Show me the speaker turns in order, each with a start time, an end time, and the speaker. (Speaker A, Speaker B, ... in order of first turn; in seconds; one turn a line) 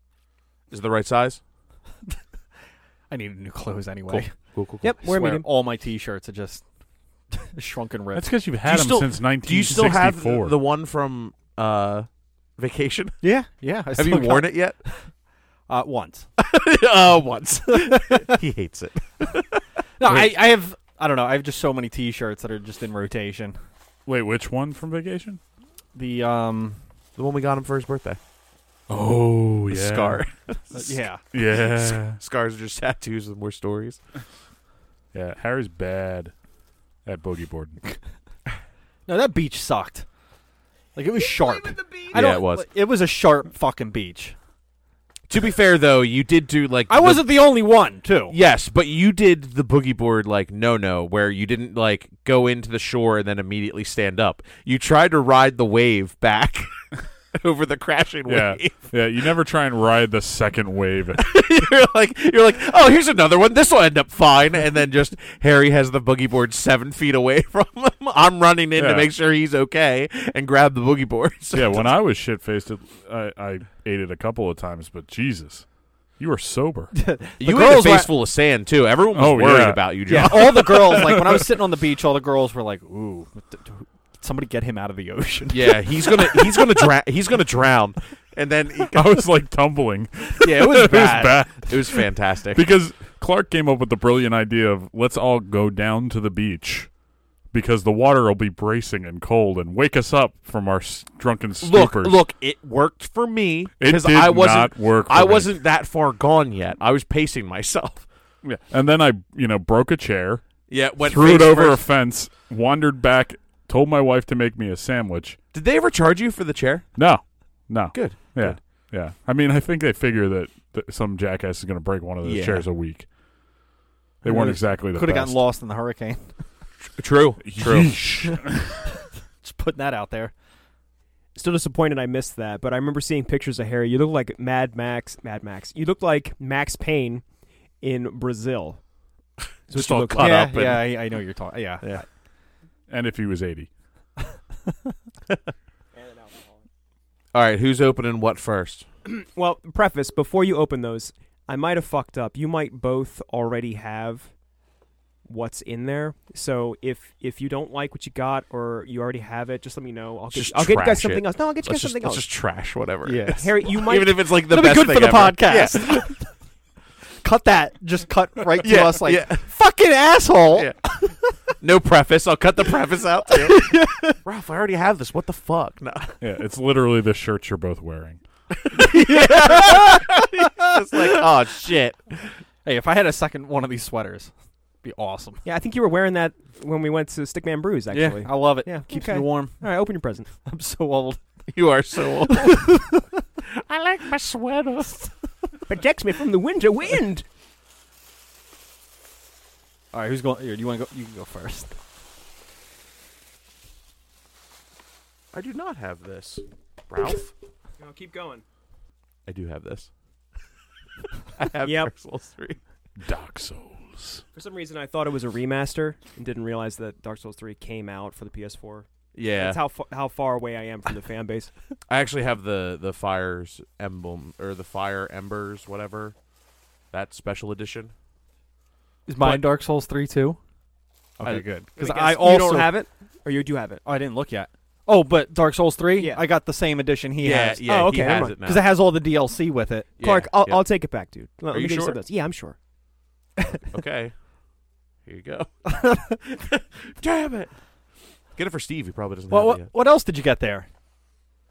Speaker A: 0.7-1.4
Speaker B: 3.1-6.6
Speaker A: 4.1-5.0
Speaker C: 4.8-5.5
Speaker B: 7.3-8.3
Speaker D: 8.1-10.6
Speaker A: 8.6-13.2
Speaker B: 13.2-15.0
Speaker A: 14.0-14.8
Speaker B: 15.7-16.3
Speaker A: 16.4-20.4
Speaker B: 20.0-23.6
Speaker D: 24.1-25.4
Speaker B: 25.9-26.8
Speaker A: 27.2-28.2
Speaker D: 28.9-30.2
Speaker A: 29.7-31.0
Speaker B: 30.7-31.2
Speaker D: 31.3-32.2
Speaker A: 31.6-34.0
Speaker D: 35.1-36.3
Speaker D: 37.1-37.9
Speaker B: 39.1-40.1
Speaker B: 41.0-44.4
Speaker C: 41.2-42.1
Speaker A: 42.1-42.7
Speaker A: 45.3-47.3
Speaker B: 46.9-48.4
Speaker A: 48.3-56.7
Speaker A: 57.4-58.9
Speaker D: 58.3-61.2
Speaker A: 61.2-71.9
Speaker D: 68.8-69.1
Speaker D: 71.5-75.7
Speaker D: 76.2-76.9
Speaker B: 76.9-78.1
Speaker A: 77.4-81.1
Speaker D: 79.1-80.4
Speaker B: 80.1-86.8
Speaker D: 81.0-81.4
Speaker A: 85.5-89.0
Speaker D: 88.9-96.9
Speaker B: 90.4-91.4
Speaker A: 91.6-92.6
Speaker D: 97.5-102.2
Speaker A: 101.6-108.1
Speaker D: 103.8-105.5
Speaker D: 108.4-110.4
Speaker A: 110.7-111.9
Speaker D: 111.0-115.4
Speaker A: 115.5-116.9
Speaker D: 117.0-123.1
Speaker A: 117.9-118.6
Speaker A: 122.2-122.7
Speaker D: 124.2-125.5
Speaker B: 124.2-126.5
Speaker A: 126.9-128.0
Speaker D: 127.4-128.7
Speaker B: 128.1-130.3
Speaker C: 131.3-137.2
Speaker C: 137.8-138.9
Speaker C: 139.7-140.5
Speaker A: 139.7-141.1
Speaker B: 140.2-142.0
Speaker D: 142.9-143.7
Speaker C: 145.9-146.6
Speaker A: 147.3-148.9
Speaker C: 149.1-154.3
Speaker C: 155.2-162.2
Speaker A: 160.3-166.2
Speaker B: 163.0-163.5
Speaker C: 163.3-164.2
Speaker B: 164.5-166.1
Speaker B: 167.2-171.3
Speaker A: 168.6-169.5
Speaker A: 171.6-173.6
Speaker B: 173.4-174.2
Speaker A: 174.2-176.2
Speaker D: 176.2-178.2
Speaker A: 178.7-182.4
Speaker B: 178.9-180.0
Speaker B: 182.6-185.4
Speaker C: 185.4-190.3
Speaker B: 187.9-189.7
Speaker B: 190.4-191.4
Speaker A: 191.5-192.8
Speaker B: 192.3-193.0
Speaker A: 193.5-195.1
Speaker C: 195.7-197.2
Speaker B: 199.9-201.8
Speaker A: 205.3-207.3
Speaker C: 207.8-208.4
Speaker A: 209.3-209.9
Speaker A: 211.3-212.6
Speaker C: 211.6-211.9
Speaker D: 213.0-214.2
Speaker C: 214.3-221.5
Speaker A: 219.1-219.6
Speaker A: 221.9-226.2
Speaker A: 226.9-227.9
Speaker B: 229.1-230.4
Speaker B: 231.2-232.7
Speaker C: 231.8-233.8
Speaker B: 233.8-239.9
Speaker C: 236.0-236.2
Speaker C: 237.2-238.4
Speaker A: 237.2-238.7
Speaker A: 240.0-240.7
Speaker C: 240.0-242.6
Speaker A: 241.5-242.0
Speaker A: 243.7-244.2
Speaker A: 245.1-245.6
Speaker B: 245.7-246.2
Speaker A: 246.5-247.5
Speaker A: 248.4-249.7
Speaker B: 249.3-250.7